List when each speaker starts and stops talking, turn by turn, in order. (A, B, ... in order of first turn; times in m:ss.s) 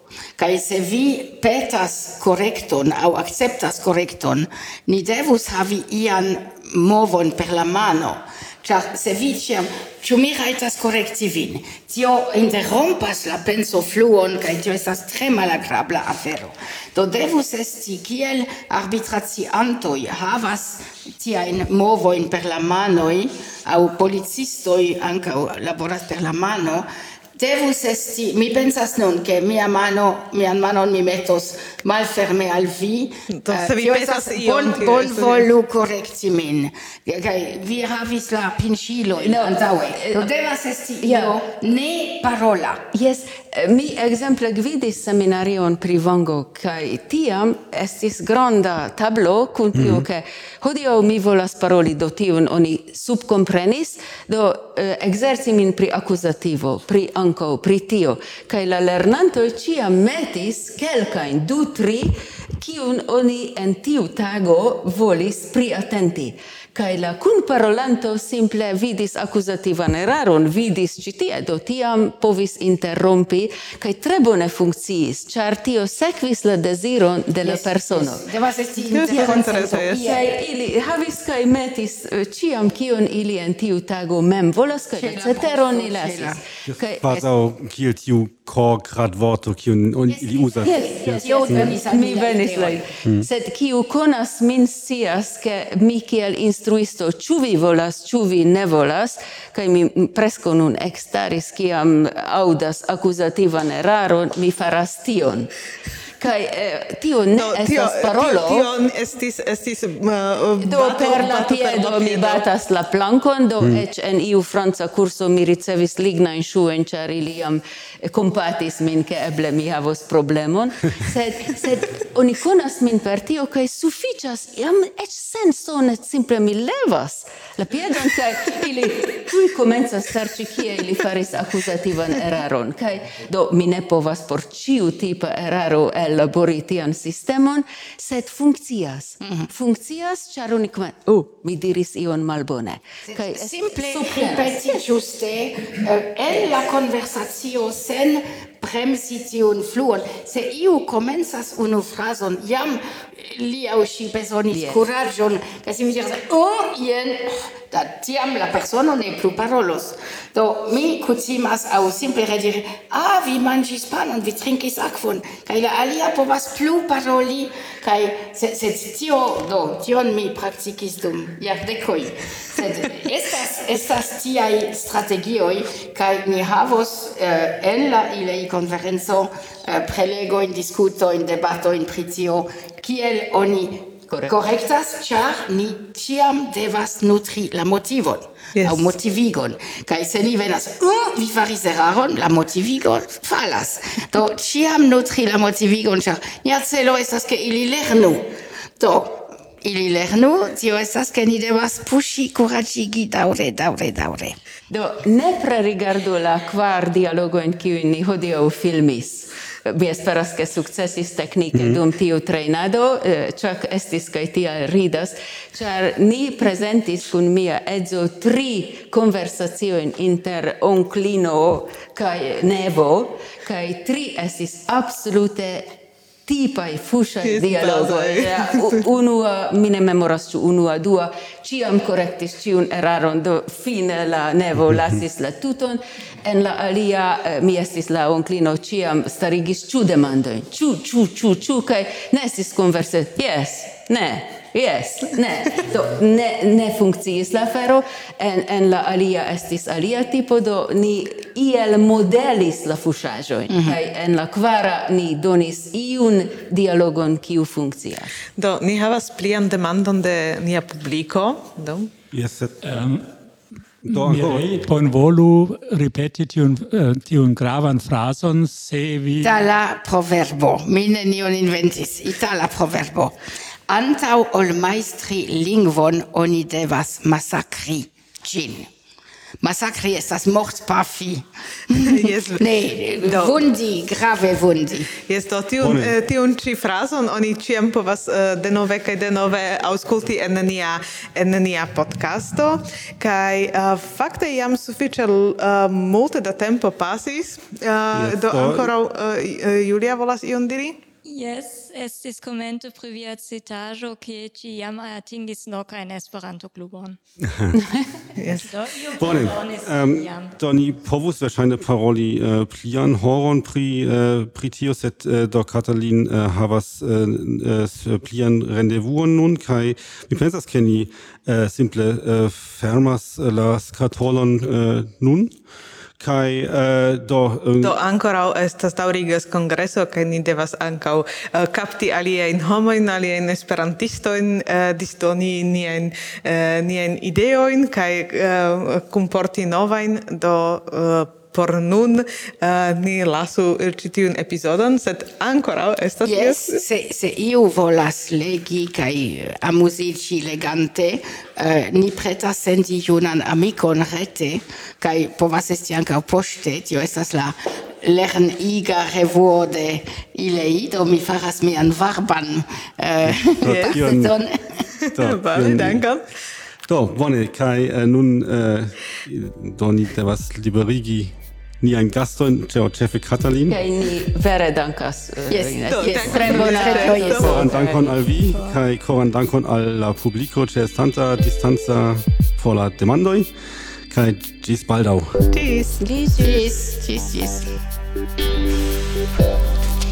0:00.4-0:42.8 A
0:33.3-0:35.5 B
0:39.2-0:40.3 C
0:41.0-0:41.3 C
0:42.9-1:18.2 C
0:49.7-0:50.0 D
1:17.4-1:20.2 A
1:18.9-1:20.1 B
1:19.1-1:19.4 C
1:20.0-1:27.1 C
1:25.0-1:26.4 A
1:26.7-1:31.7 D
1:30.1-1:32.8 A
1:30.6-1:45.5 C
1:46.2-1:48.7 C
1:47.4-1:52.4 B
1:50.6-2:24.8 C
2:19.2-2:19.5 A
2:23.0-3:18.2 A
2:34.5-2:34.8 C
3:04.1-3:04.4 C
3:08.5-3:08.9 B
3:18.8-3:24.4 A
3:24.7-3:45.7 C
3:31.5-3:31.8 D
3:46.3-4:18.2 C
3:47.2-3:48.8 B
4:13.5-4:13.8 A
4:18.4-4:21.9 B
4:22.1-4:22.7 D
4:22.6-4:23.1 E
4:23.8-4:24.6 D
4:23.9-4:29.5 E
4:29.2-4:33.2 A
4:33.7-4:38.7 A
4:39.4-4:44.9 A
4:41.7-4:43.4 B
4:45.0-5:00.8 B
4:45.6-4:46.0 D
4:57.9-4:58.7 D
5:01.0-5:07.0 F
5:07.2-5:07.5 D
5:07.5-5:07.8 C
5:08.2-5:08.5 B
5:08.4-5:10.3 F
5:09.0-5:25.3 D
5:26.0-5:27.8 D
5:27.6-5:46.6 B
5:46.0-6:04.7 A
6:03.0-6:04.2 D
6:03.4-6:03.8 B
6:04.8-6:06.0 B
6:04.9-6:05.8 D
6:06.7-6:13.6 D
6:13.5-6:17.5 C
6:15.3-6:17.5 A
6:15.7-6:17.9 B
6:16.2-6:16.4 D
6:17.1-6:23.3 D
6:23.9-6:25.2 D
6:25.3-6:25.8 B
6:25.8-6:26.4 C
6:26.2-6:27.5 A